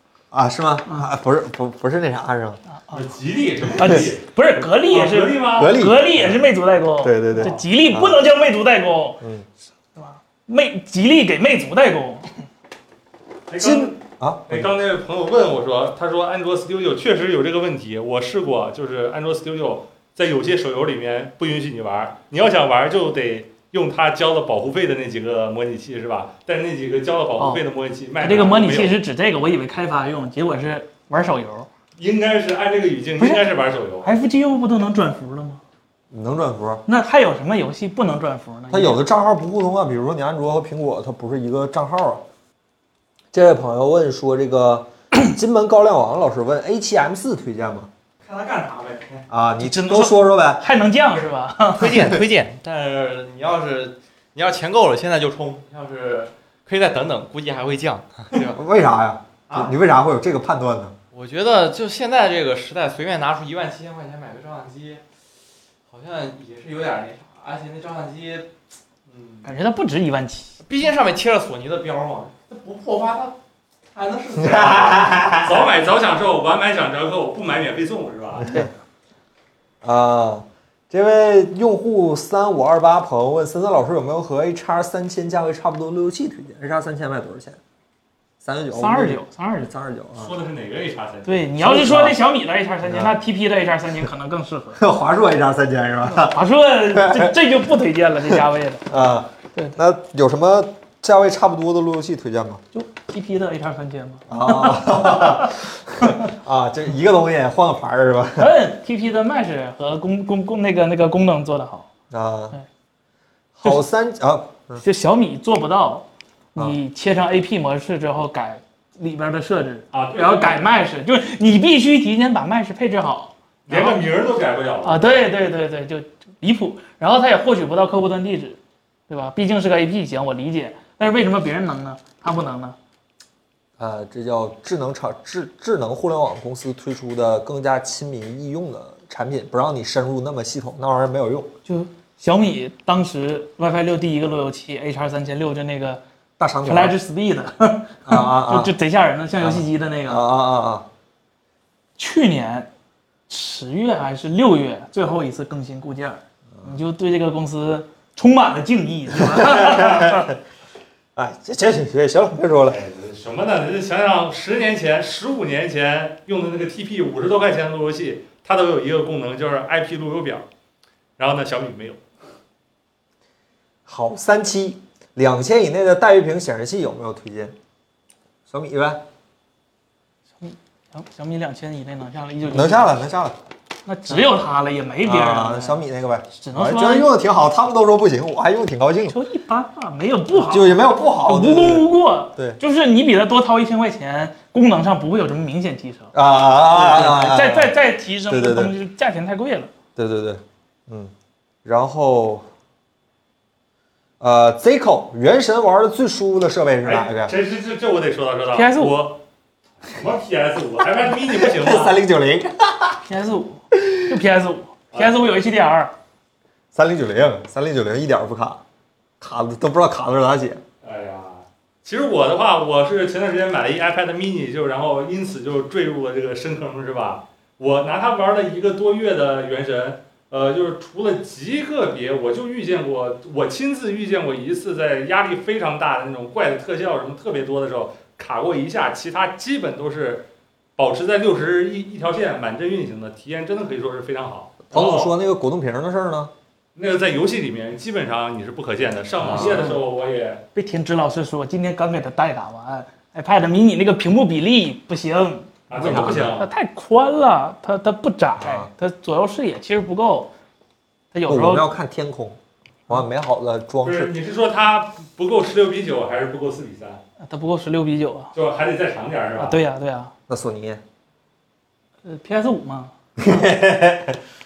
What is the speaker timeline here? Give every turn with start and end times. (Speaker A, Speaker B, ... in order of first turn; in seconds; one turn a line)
Speaker A: 0.3-2.6
Speaker B: 2.7-3.1
Speaker C: 2.9-5.7
Speaker B: 3.7-9.2
Speaker A: 5.5-8.2
Speaker A: 9.2-9.5
Speaker B: 9.9-12.3
Speaker C: 13.5-29.0
Speaker A: 13.6-14.7
Speaker B: 27.4-27.6
Speaker B: 28.2-31.7
Speaker C: 32.0-34.1
Speaker B: 33.2-33.4
Speaker B: 34.0-35.6
Speaker A: 36.1-36.8
Speaker B: 36.9-39.0
Speaker A: 38.7-42.2
Speaker A: 43.3-47.9
Speaker D: 48.2-49.2
Speaker A: 49.3-50.6
Speaker B: 49.6-52.1
Speaker D: 51.8-58.6
Speaker A: 58.3-61.0
Speaker D: 61.1-65.0
Speaker D: 65.9-68.5
Speaker D: 69.1-69.5
Speaker B: 69.4-70.6
Speaker D: 70.6-73.3
Speaker D: 73.9-75.4
Speaker A: 74.3-75.7
Speaker C: 75.4-78.5
Speaker A: 79.8-87.6
Speaker A: 88.4-90.3
Speaker B: 88.7-89.7
Speaker C: 90.2-91.4
Speaker B: 91.2-94.8
Speaker A: 91.6-92.2
Speaker A: 92.8-93.2
Speaker A: 94.8-96.4
Speaker B: 96.0-98.9
Speaker A: 96.9-97.4
Speaker A: 98.9-102.6
Speaker B: 102.7-106.2
Speaker A: 104.3-108.5
Speaker B: 108.4-111.9
Speaker A: 112.1-112.6
Speaker A: 113.5-114.8
Speaker B: 114.8-124.0
Speaker C: 119.9-120.7
Speaker C: 123.7-125.2
Speaker B: 124.8-132.8
Speaker A: 133.8-141.5
Speaker B: 141.7-146.0
Speaker A: 146.4-147.0
Speaker B: 146.6-150.2
Speaker A: 148.1-148.7
Speaker A: 149.4-150.8
Speaker B: 152.0-152.7
Speaker B: 153.3-160.3
Speaker A: 159.1-160.4
Speaker A: 161.2-162.8
Speaker C: 162.7-170.4
Speaker C: 171.2-172.0
Speaker A: 173.8-177.5
Speaker A: 178.5-179.0
Speaker B: 180.4-183.0
Speaker A: 182.4-183.4
Speaker B: 183.8-185.8
Speaker A: 185.0-189.2
Speaker B: 186.3-187.1
Speaker B: 189.1-196.1
Speaker A: 190.3-192.6
Speaker A: 196.1-197.7
Speaker B: 196.7-199.7
Speaker A: 198.3-198.7
Speaker A: 199.9-201.1
Speaker A: 201.6-202.4
Speaker A: 204.2-207.3
Speaker C: 206.8-209.2
Speaker B: 208.5-209.0
Speaker C: 209.8-212.0
Speaker A: 211.2-213.0
Speaker B: 213.0-215.9
Speaker A: 213.7-214.2
Speaker A: 216.7-218.6
Speaker A: 219.2-220.6
Speaker C: 220.8-245.1
Speaker A: 244.7-246.3
Speaker C: 246.7-250.4
Speaker A: 249.2-249.7
Speaker B: 249.3-249.6
Speaker B: 250.5-260.3
Speaker C: 255.7-256.5
Speaker A: 255.7-256.4
Speaker A: 258.4-258.7
Speaker B: 261.1-261.7
Speaker A: 261.3-264.1
Speaker C: 263.8-267.0
Speaker B: 267.2-268.3
Speaker C: 268.3-269.6
Speaker B: 269.4-270.1
Speaker A: 270.3-270.8
Speaker B: 272.0-272.9
Speaker A: 273.2-274.2